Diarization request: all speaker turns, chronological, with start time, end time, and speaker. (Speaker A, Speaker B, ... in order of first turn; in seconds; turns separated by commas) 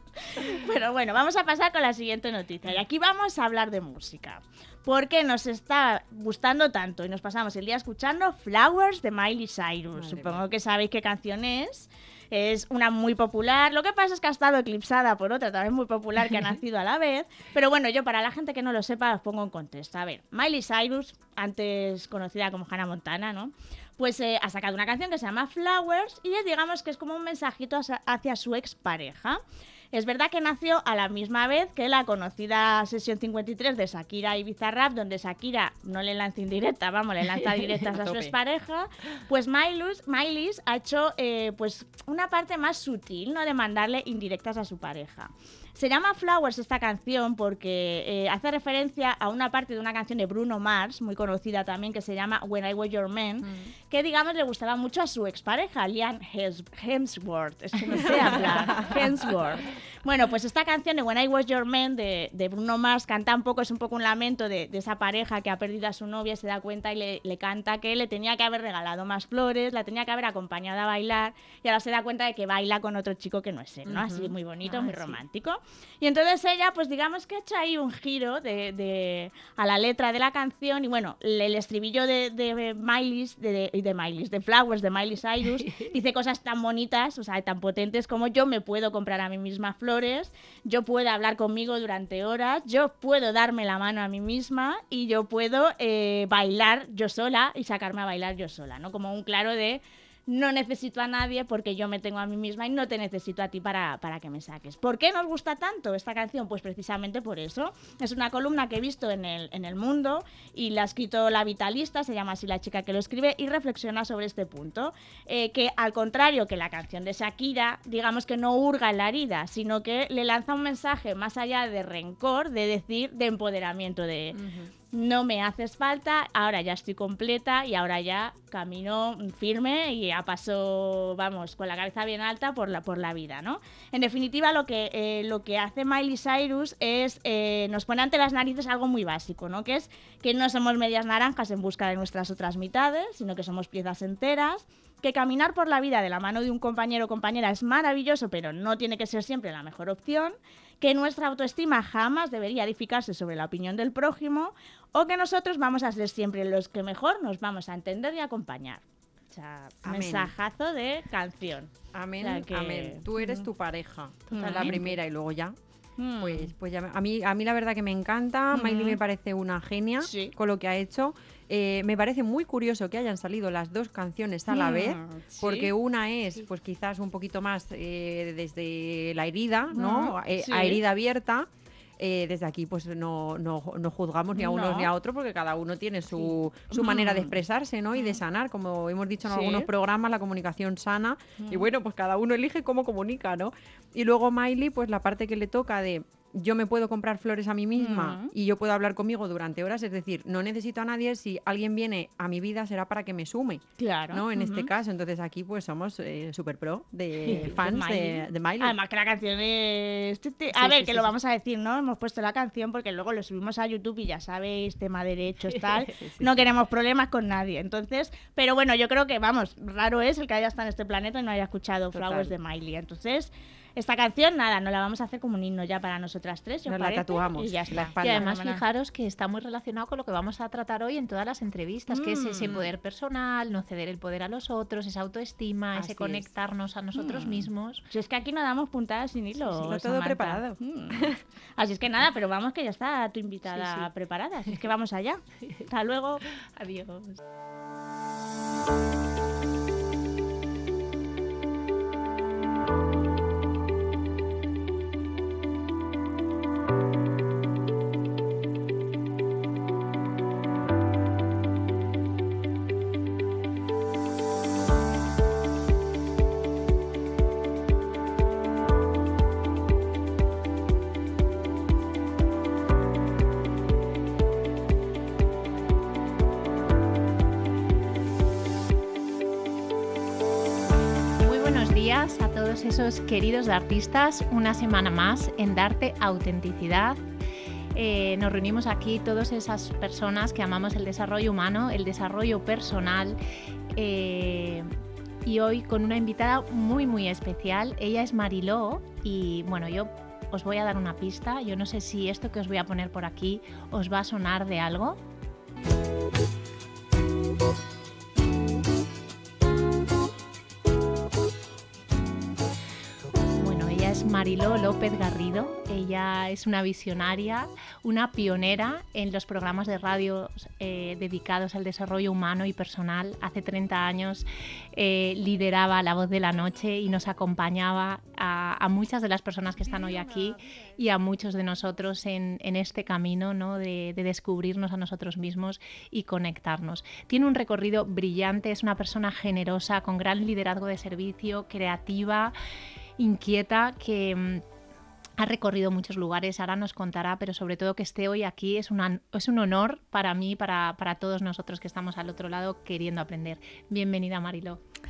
Speaker A: 0.2-124.4, Speaker B: 9.9-10.4, Speaker B: 37.9-38.3, Speaker B: 53.4-53.7, Speaker B: 57.9-59.0, Speaker B: 73.9-74.9, Speaker B: 124.3-124.7, Speaker A: 124.9-163.5, Speaker B: 159.9-160.3, Speaker B: 161.9-165.6, Speaker A: 164.3-165.0, Speaker A: 166.0-166.5, Speaker B: 166.2-181.5, Speaker A: 168.5-169.0, Speaker A: 170.0-170.3, Speaker A: 174.5-175.7, Speaker A: 179.7-180.8, Speaker B: 182.0-208.8, Speaker A: 184.4-184.9, Speaker A: 186.1-187.4, Speaker A: 187.9-188.2, Speaker A: 189.2-189.7, Speaker A: 191.4-191.7, Speaker A: 197.8-198.3, Speaker A: 203.8-204.7, Speaker A: 207.2-228.6, Speaker B: 210.5-211.1, Speaker B: 215.8-216.4, Speaker B: 221.9-222.3, Speaker B: 226.7-228.3, Speaker C: 228.0-237.8, Speaker A: 231.9-232.7, Speaker B: 235.8-236.2, Speaker A: 236.9-246.3, Speaker B: 239.4-241.2, Speaker C: 246.6-247.2, Speaker C: 281.2-287.0, Speaker C: 287.7-293.2, Speaker C: 293.7-294.7, Speaker C: 295.2-305.0, Speaker C: 313.3-342.4, Speaker B: 329.7-330.2, Speaker C: 343.0-344.4, Speaker C: 345.2-354.6